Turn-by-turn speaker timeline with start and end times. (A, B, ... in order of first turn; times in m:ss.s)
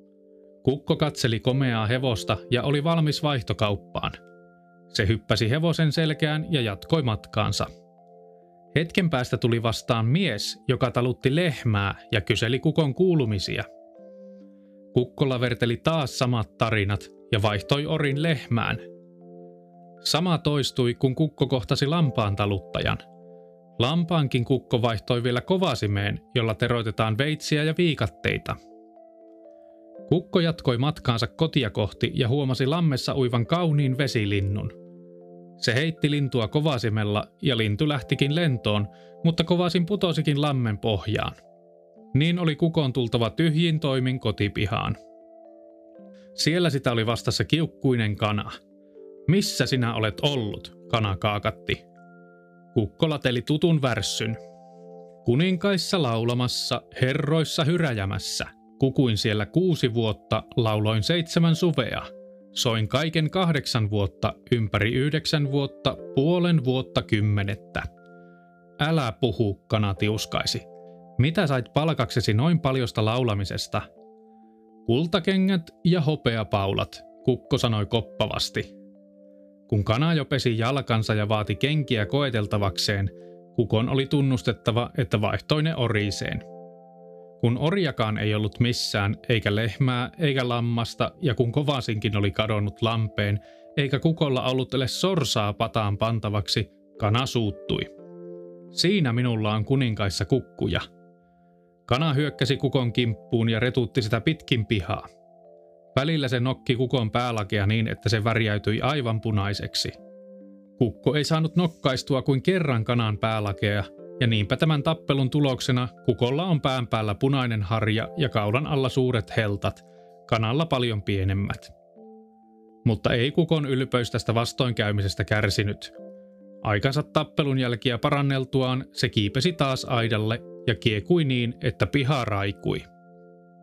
0:00.6-0:04.2 A
0:04.9-0:07.7 A
0:08.7-0:13.7 A
0:14.9-0:18.8 A
0:20.0-0:23.0 A
0:23.8-0:28.6 A
0:30.1-0:34.8 A
0:35.6-0:41.4 A
0:42.1-0:45.0 A
0:46.3-0:48.6 A
0:49.3-0:51.8 A
0:52.7-0:54.4 A
0:55.2-1:07.9 A
1:08.8-1:10.7 A
1:11.2-1:13.8 A
1:14.8-1:18.7 A
1:19.7-1:26.4 A
1:27.4-1:37.9 A
1:38.7-1:40.8 A
1:41.9-1:45.1 A
1:45.9-1:49.9 A
1:50.8-2:01.7 A
2:02.8-2:05.9 A
2:06.6-2:12.9 A